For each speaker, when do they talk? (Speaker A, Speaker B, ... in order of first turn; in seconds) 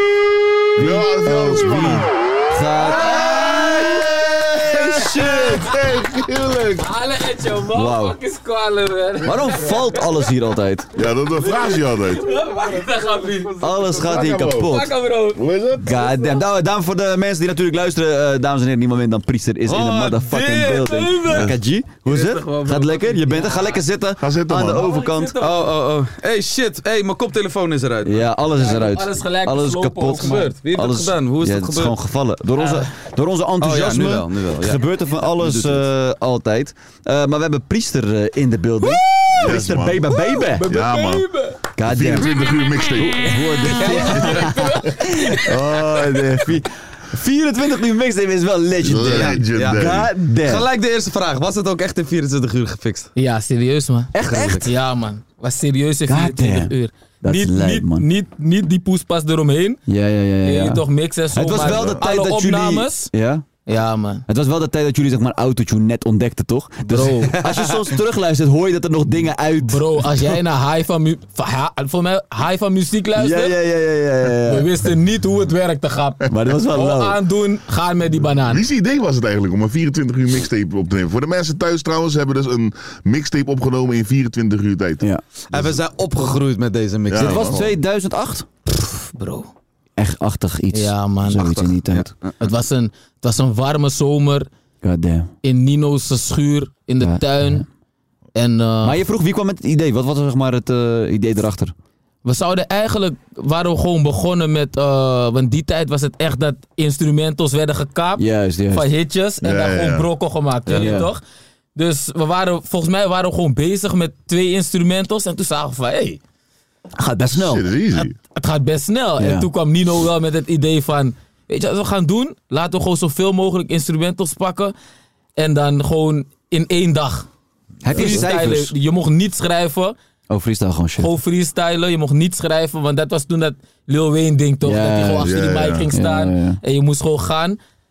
Speaker A: 0.8-5.7, 7.7-8.2, 9.2-10.9, 13.6-14.9, 15.8-25.4, 28.0-40.7, 41.8-42.3, 43.0-50.7, 54.1-54.7, 56.1-58.1, 59.9-63.5, 64.3-70.4, 73.2-74.8, 76.3-77.2, 87.2-88.5, 90.0-92.1, 94.8-95.3, 97.0-97.7, 98.8-101.7, 108.2-108.9, 110.7-111.1, 117.0-117.7, 119.2-119.5, 127.8-128.7, 130.3-131.1, 134.6-135.3, 135.9-136.6
Speaker B: 0.8-2.1, 5.3-6.9, 10.9-12.3, 14.0-14.8, 15.3-16.1, 21.3-21.5, 24.2-24.9, 39.4-41.3, 41.8-43.4, 48.8-50.1, 61.6-62.0, 78.5-85.8, 87.1-87.6, 109.4-110.1, 117.3-118.1, 135.2-135.9
Speaker C: 3.1-3.6, 4.7-5.6, 6.8-10.3, 11.4-15.4, 20.2-21.5, 22.1-23.8, 24.7-25.5, 28.6-30.6, 40.5-41.6, 43.6-45.5, 53.2-59.8, 60.4-63.1, 63.7-64.2, 66.9-67.4, 69.6-73.6, 74.5-78.6, 88.8-89.5, 90.7-91.6, 92.4-94.5, 95.4-97.7, 98.3-99.0, 102.2-111.2, 111.8-116.2, 117.9-124.7, 125.4-127.3, 127.9-129.9, 131.0-137.6
Speaker D: 19.7-20.5, 25.4-28.2, 30.2-31.9, 33.6-35.9, 49.0-49.9, 50.4-53.1, 54.2-54.7, 67.4-67.9, 85.5-87.7, 91.4-92.3